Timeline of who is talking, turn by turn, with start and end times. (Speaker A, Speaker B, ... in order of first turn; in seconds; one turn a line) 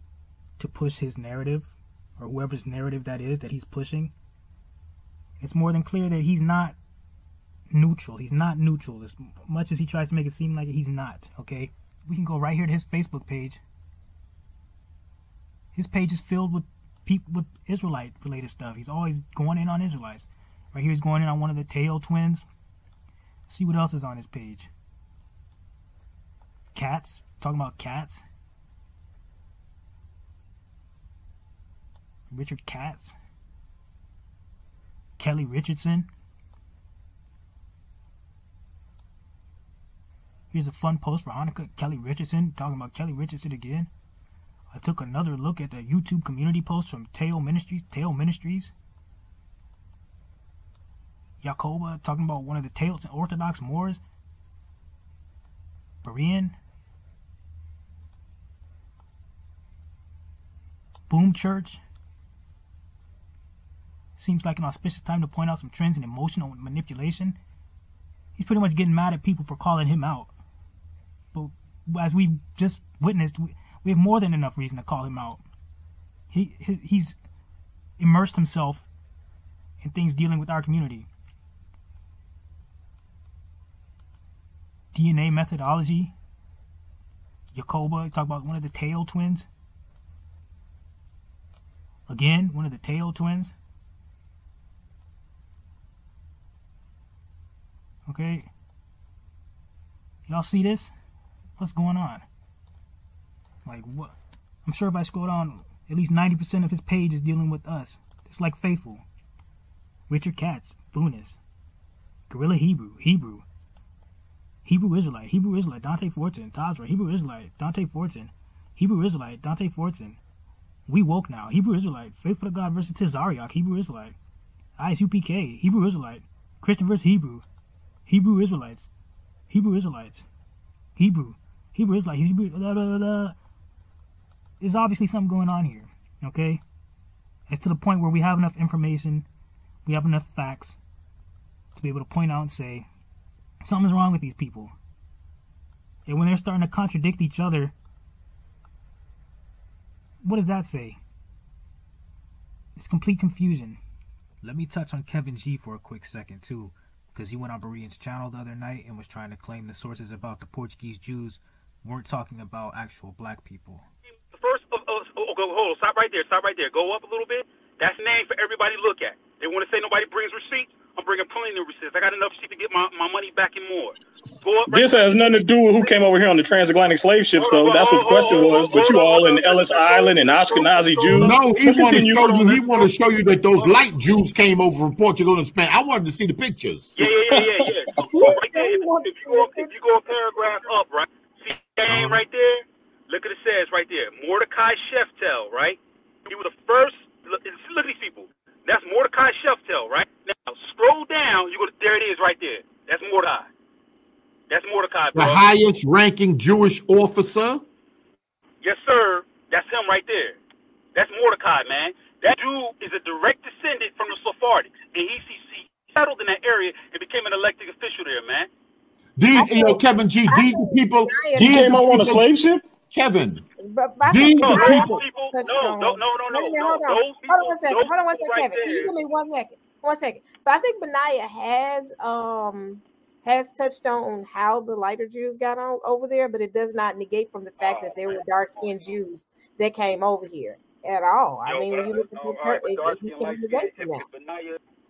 Speaker A: 0.6-4.1
Speaker A: 5.4-6.8
Speaker A: 7.7-13.6
Speaker A: 15.7-22.4
Speaker A: 23.5-24.7
Speaker A: 26.7-28.2
Speaker A: 32.3-33.1
Speaker A: 35.2-36.1
Speaker A: 40.5-43.9
Speaker A: 44.7-48.7
Speaker A: 51.4-54.0
Speaker A: 56.0-56.6
Speaker A: 61.1-61.8
Speaker A: 64.2-67.4
Speaker A: 68.3-70.3
Speaker A: 71.3-75.4
Speaker A: 76.3-77.2
Speaker A: 78.0-78.8
Speaker A: 79.8-81.1
Speaker A: 84.9-86.1
Speaker A: 87.5-89.5
Speaker A: 92.1-93.5
Speaker A: 98.0-98.5
Speaker A: 100.3-100.9
Speaker A: 101.6-102.2
Speaker A: 103.6-109.0
Speaker A: 110.1-111.4
Speaker A: 112.3-113.4
Speaker A: 114.6-120.2
Speaker A: 120.9-124.2
Speaker A: 124.8-127.4
Speaker A: 128.1-128.9
Speaker A: 129.5-130.2
Speaker A: 130.9-133.3
Speaker A: 134.6-136.6
Speaker A: 137.5-139.2
Speaker A: 139.8-140.8
Speaker A: 141.7-142.9
Speaker A: 143.6-144.7
Speaker A: 146.1-147.7
Speaker A: 150.2-151.0
Speaker A: 152.8-153.8
Speaker A: 154.4-163.8
Speaker B: 164.2-175.9
Speaker C: 174.7-182.8
Speaker B: 177.3-181.3
Speaker D: 181.1-187.4
Speaker B: 186.9-203.5
Speaker E: 187.6-189.7
Speaker D: 191.9-192.2
Speaker B: 204.5-205.5
Speaker D: 205.1-207.6
Speaker B: 208.6-210.4
Speaker B: 210.9-218.5
Speaker D: 219.2-222.2
Speaker E: 219.3-221.6
Speaker C: 221.4-222.6
Speaker D: 222.8-223.4
Speaker E: 223.6-244.0
Speaker D: 224.1-225.0
Speaker B: 224.4-228.9
Speaker B: 237.6-238.9
Speaker B: 241.4-244.6